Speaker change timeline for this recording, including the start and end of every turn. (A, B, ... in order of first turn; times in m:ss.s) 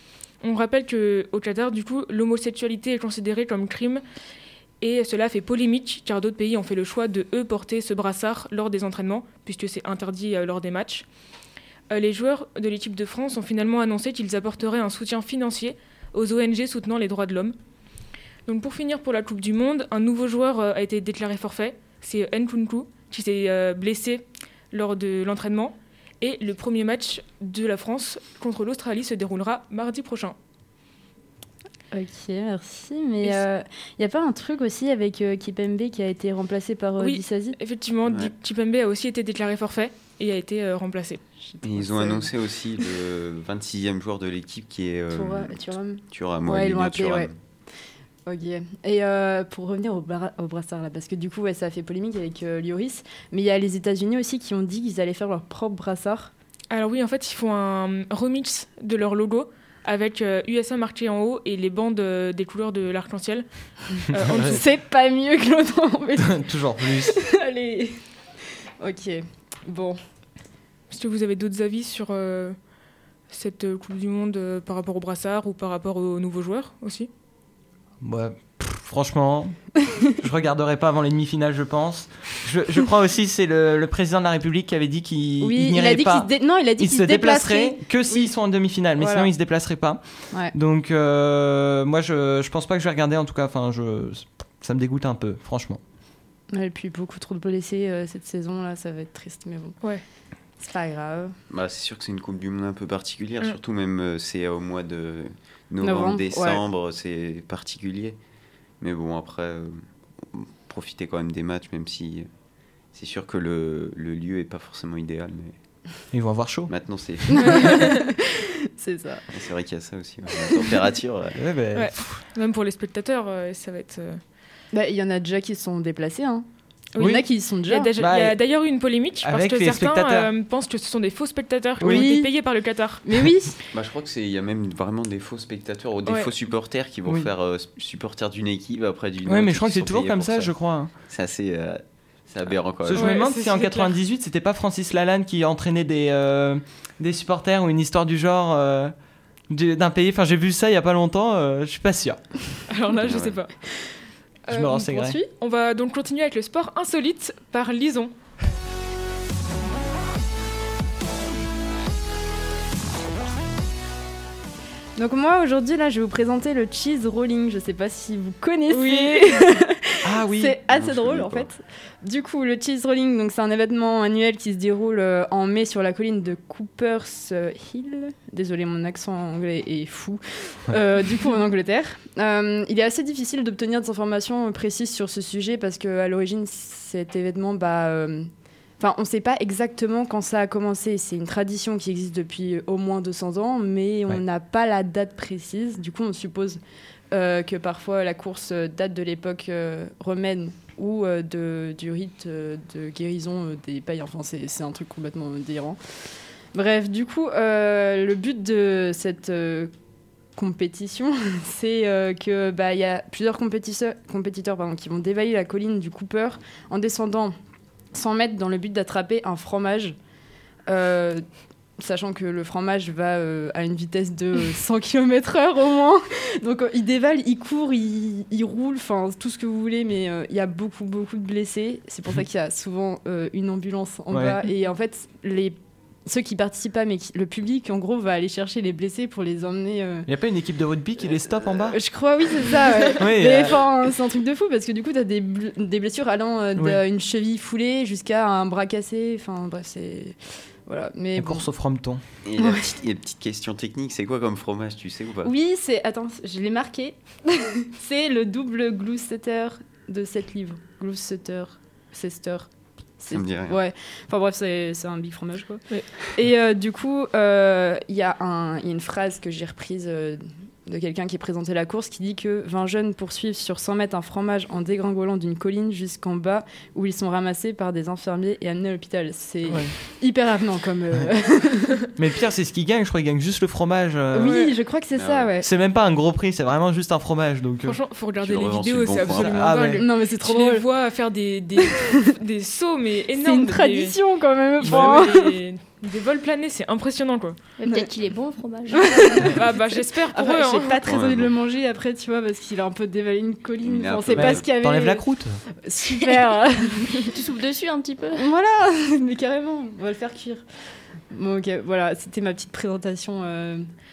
0:00.4-0:04.0 A
0:04.8-0:11.1 A
0:11.9-0:17.6 A
0:18.5-0:30.4 A
0:31.9-0:37.6 B
0:37.0-0:41.2 A
0:41.4-0:42.3 B
0:41.6-0:45.6 C
0:45.1-0:47.3 B
0:46.1-0:47.3 C
0:48.3-0:56.3 B
0:56.7-1:03.5 A
1:04.0-1:04.6 A
1:04.2-1:04.5 D
1:04.4-1:08.0 B
1:06.2-1:07.2 D
1:08.8-1:10.0 B
1:10.9-1:12.6 A
1:13.3-1:17.1 A
1:18.0-1:30.0 D
1:25.4-1:28.3 B
1:29.0-1:29.3 B
1:30.5-1:35.8 D
1:36.5-1:39.8 B
1:40.6-1:41.4 B
1:41.5-1:48.2 C
1:45.8-1:46.6 B
1:48.8-1:52.3 C
1:52.9-1:55.6 C
1:56.1-1:56.7 D
1:56.7-1:57.9 C
1:57.3-1:59.3 B
1:57.6-1:58.0 A
1:59.3-2:01.4 C
2:00.4-2:00.7 B
2:01.4-2:02.2 D
2:01.7-2:04.2 A
2:04.7-2:06.5 B
2:06.9-2:13.0 A
2:07.0-2:07.2 D
2:07.0-2:07.9 B
2:08.0-2:08.4 D
2:09.2-2:10.3 D
2:11.8-2:12.1 D
2:11.8-2:12.3 B
2:13.0-2:13.6 B
2:13.7-2:20.5 C
2:19.3-2:20.9 D
2:21.1-2:23.1 C
2:22.8-2:28.9 D
2:22.9-2:24.0 A
2:29.5-2:32.2 D
2:32.7-2:33.5 A
2:33.0-2:33.4 C
2:34.5-2:38.1 A
2:34.5-2:35.2 D
2:34.6-2:35.3 B
2:45.0-3:16.6 B
2:48.7-2:49.5 A
2:50.0-2:50.6 D
2:50.7-2:51.5 C
3:17.1-3:25.8 B
3:26.5-3:29.7 B
3:30.4-3:37.3 B
3:37.9-3:40.0 B
3:40.7-3:41.2 B
3:41.8-4:00.1 B
3:54.1-3:54.4 D
4:00.1-4:01.8 D
4:01.7-4:11.5 B
4:03.0-4:03.6 D
4:11.2-4:12.0 D
4:12.2-4:15.3 C
4:12.4-4:12.7 B
4:15.2-4:41.8 B
4:23.1-4:23.6 C
4:39.5-4:39.7 D
4:42.0-4:44.4 D
4:44.1-4:45.5 B
4:44.2-4:44.5 A
4:45.0-4:45.3 C
4:45.4-4:47.8 D
4:47.6-4:54.0 A
4:48.2-4:49.5 C
4:49.0-4:49.8 D
4:49.7-4:50.7 B
4:51.6-4:52.1 B
4:53.1-4:55.4 B
4:54.6-4:57.4 A
4:57.6-4:59.4 E
4:57.6-4:57.9 B
4:58.7-5:05.1 B
4:59.2-5:00.8 A
5:00.8-5:01.3 C
5:03.6-5:04.4 C
5:04.1-5:05.4 D
5:05.6-5:07.1 B
5:07.0-5:08.3 E
5:08.1-5:10.4 B
5:11.1-5:13.7 B